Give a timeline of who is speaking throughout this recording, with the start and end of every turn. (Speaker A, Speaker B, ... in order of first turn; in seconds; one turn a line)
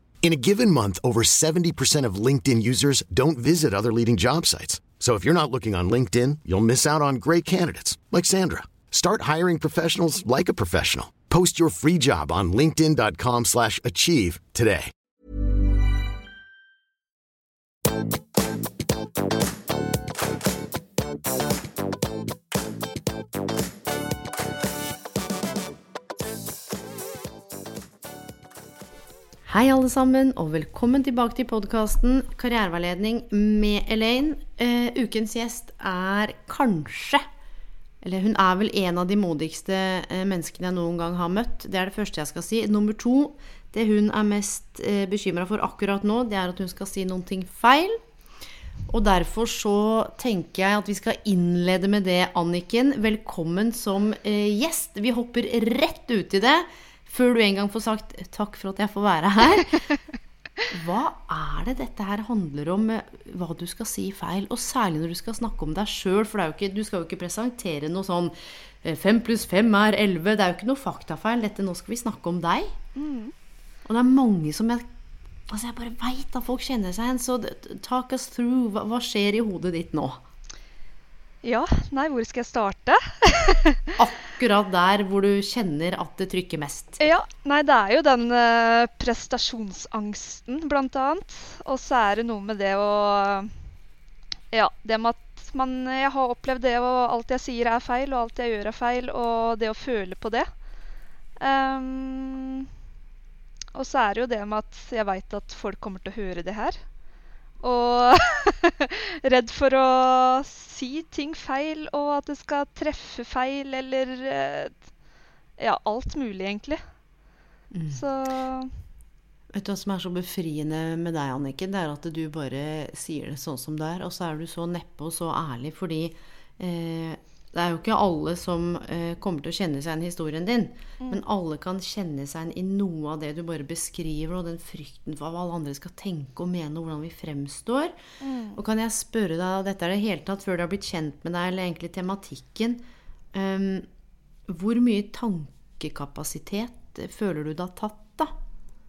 Speaker A: 0.2-14.9
Speaker B: 29.4-37.3
Speaker B: 38.0-48.0
Speaker B: 48.9-59.9
Speaker B: 60.7-72.8
Speaker C: 73.0-73.3
Speaker B: 73.9-74.9
Speaker B: 75.5-80.2
Speaker C: 81.4-84.0
Speaker B: 84.0-87.0
Speaker C: 87.0-93.5
Speaker C: 94.5-100.5
Speaker C: 101.4-102.7
Speaker C: 103.8-106.8
Speaker C: 107.6-114.8
Speaker C: 115.6-116.8
Speaker B: 117.7-118.0
Speaker C: 117.9-118.8
Speaker B: 119.5-138.0
Speaker C: 138.2-138.6
Speaker B: 138.5-143.9
Speaker B: 144.5-148.3